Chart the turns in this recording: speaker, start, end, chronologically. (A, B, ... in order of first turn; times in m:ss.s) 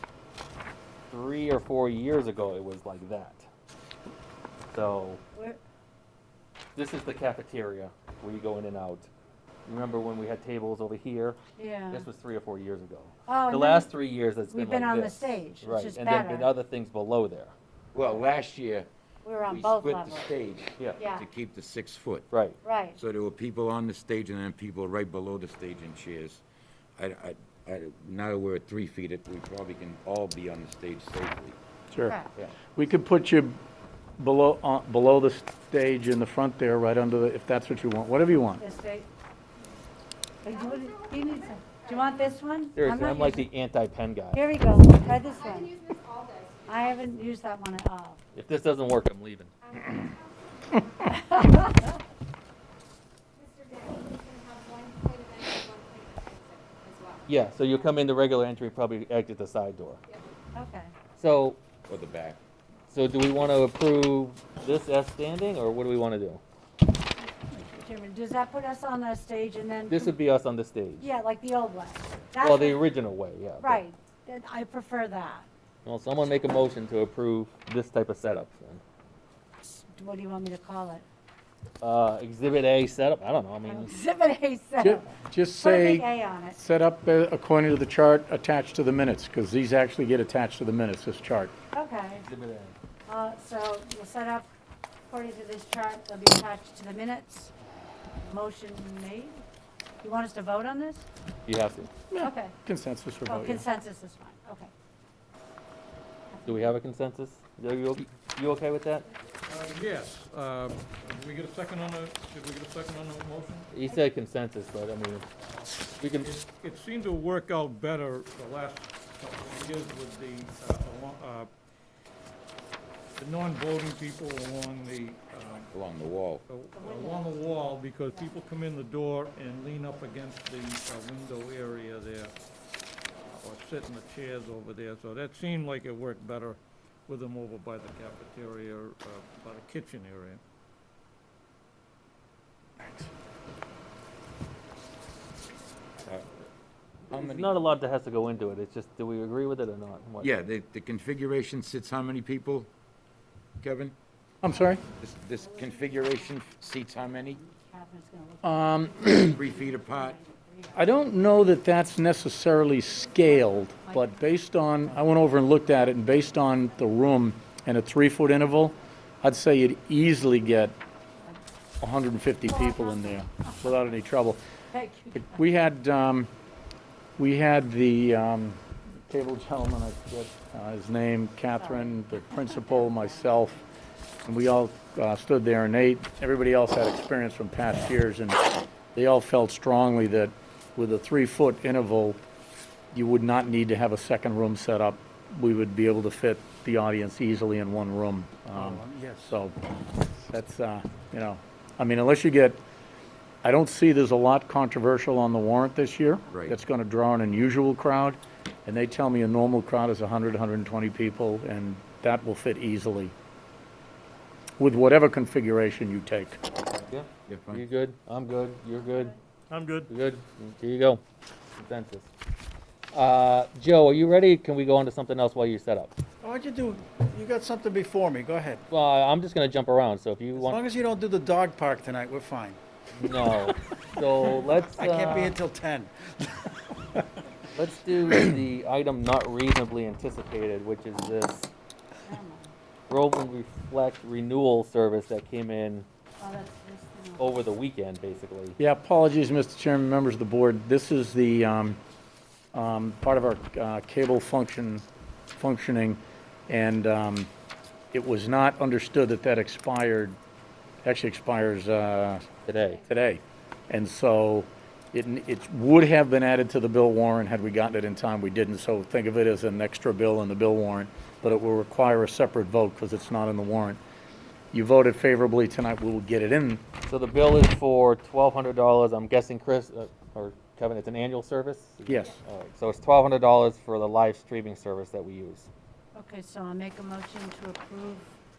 0:01.1-0:03.5 A
0:04.7-0:05.2 A
0:05.3-0:05.6 B
0:06.8-0:09.1 A
0:09.7-0:11.4 A
0:11.6-0:12.0 B
0:11.9-0:17.5 A
0:13.3-0:13.9 B
0:14.5-0:16.5 B
0:17.9-0:18.9 C
0:19.2-0:20.3 B
0:19.5-0:22.3 C
0:21.0-0:21.3 B
0:22.3-0:22.6 A
0:22.6-0:23.0 B
0:23.0-0:26.4 C
0:27.0-0:31.6 C
0:31.9-0:32.2 D
0:32.0-0:32.3 B
0:32.7-0:33.6 D
0:34.2-0:38.6 D
0:38.6-0:39.1 B
0:40.4-0:43.5 B
0:40.5-0:42.3 E
0:42.8-0:44.4 A
0:44.3-0:45.7 B
0:45.2-0:47.1 E
0:46.7-0:48.2 B
0:48.4-0:49.5 A
0:49.6-0:51.2 E
0:51.2-0:51.9 B
0:53.4-0:57.3 E
0:57.3-1:00.0 A
1:00.5-1:00.9 B
1:01.2-1:01.6 A
1:01.9-1:02.4 C
1:02.9-1:06.4 A
1:07.2-1:10.2 B
1:09.9-1:11.1 A
1:11.0-1:12.8 B
1:12.4-1:13.8 A
1:13.6-1:15.5 B
1:15.8-1:18.8 A
1:19.6-1:21.0 B
1:21.8-1:24.0 A
1:23.7-1:26.6 B
1:24.8-1:31.5 D
1:31.7-1:32.2 B
1:32.1-1:32.8 A
1:33.1-1:34.5 B
1:35.1-1:37.5 B
1:38.2-1:39.4 B
1:40.0-1:41.1 B
1:41.5-1:41.9 A
1:42.1-1:43.7 D
1:42.2-1:42.5 B
1:43.3-1:44.7 B
1:46.3-1:46.8 B
1:46.5-1:49.1 A
1:49.5-1:53.7 F
1:53.7-1:55.2 A
1:56.0-1:56.3 A
1:56.2-2:01.5 F
2:03.2-2:05.7 F
2:05.7-2:06.4 C
2:06.5-2:12.3 F
2:06.8-2:08.3 B
2:13.4-2:20.4 F
2:27.1-2:27.5 C
2:27.1-2:30.3 A
2:30.2-2:32.7 C
2:33.6-2:34.0 C
2:34.4-2:34.8 D
2:35.0-2:37.4 C
2:35.4-2:41.0 B
2:38.4-2:39.4 D
2:39.3-2:40.2 C
2:40.8-2:50.8 D
2:43.2-2:44.1 B
2:51.8-2:54.4 D
2:52.5-2:53.1 B
2:54.7-2:55.3 B
2:55.2-2:56.3 D
2:57.2-3:03.6 D
3:01.6-3:03.7 B
3:04.3-3:12.2 D
3:12.9-3:22.6 D
3:18.5-3:19.4 G
3:23.4-3:33.1 D
3:26.3-3:26.6 C
3:34.6-3:36.4 D
3:36.8-3:39.1 A
3:37.3-3:37.6 C
3:39.5-3:39.9 F
3:39.9-3:41.0 A
3:41.6-3:42.1 A
3:42.9-3:46.0 A
3:46.2-3:48.6 G
3:48.7-3:50.6 A
3:50.3-3:52.6 G
3:53.0-3:55.4 A
3:54.8-3:56.5 G
3:57.5-4:01.5 A
4:02.1-4:02.5 B
4:02.9-4:05.9 A
4:06.2-4:07.4 B
4:07.2-4:08.6 A
4:08.6-4:11.8 D
4:12.5-4:17.3 D
4:17.9-4:20.2 D
4:20.8-4:33.8 D
4:22.5-4:22.8 A
4:34.5-4:36.6 D
4:36.9-4:45.5 A
4:41.9-4:42.2 D
4:46.0-4:48.1 B